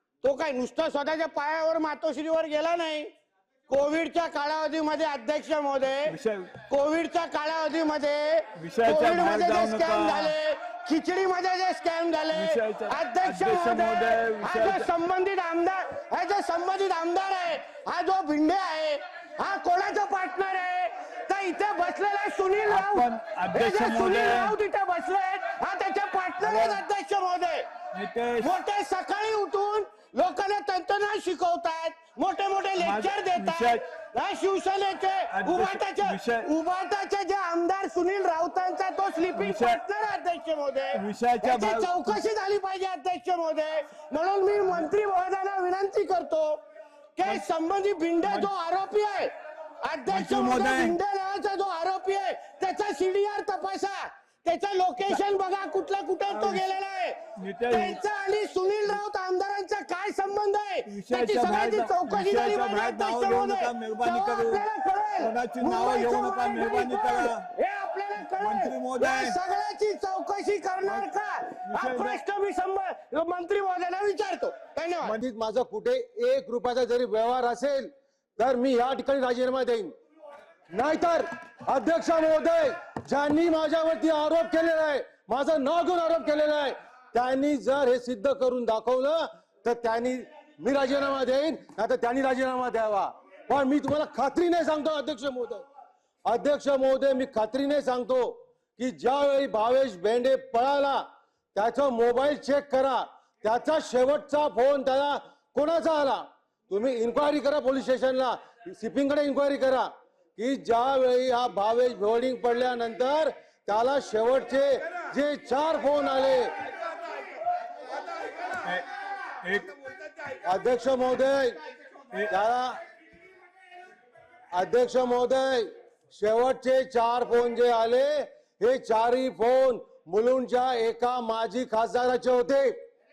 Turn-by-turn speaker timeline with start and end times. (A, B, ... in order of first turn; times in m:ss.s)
0:00.2-0:03.1 A
0:03.7-0:06.2 A
0:06.0-0:06.6 B
0:06.7-0:27.6 A
0:08.6-0:10.3 B
0:12.3-0:14.9 B
0:22.7-0:24.5 B
0:26.4-0:26.8 B
0:27.9-0:28.5 B
0:28.4-0:46.6 A
0:32.8-0:33.8 B
0:35.3-0:36.5 B
0:39.4-0:39.8 B
0:40.9-0:42.2 B
0:47.2-0:49.3 A
0:49.8-1:15.1 A
0:50.1-0:51.0 B
0:56.3-0:56.7 B
0:57.4-0:58.0 B
1:00.8-1:04.6 B
1:05.2-1:07.5 B
1:08.4-1:09.4 B
1:11.6-1:12.2 B
1:15.0-1:19.9 C
1:20.7-1:35.6 C
1:36.2-1:41.0 C
1:41.5-1:56.6 C
1:58.6-1:58.9 B
1:59.4-1:59.8 B
2:00.4-2:01.6 C
2:02.3-2:02.8 C
2:04.5-2:12.7 C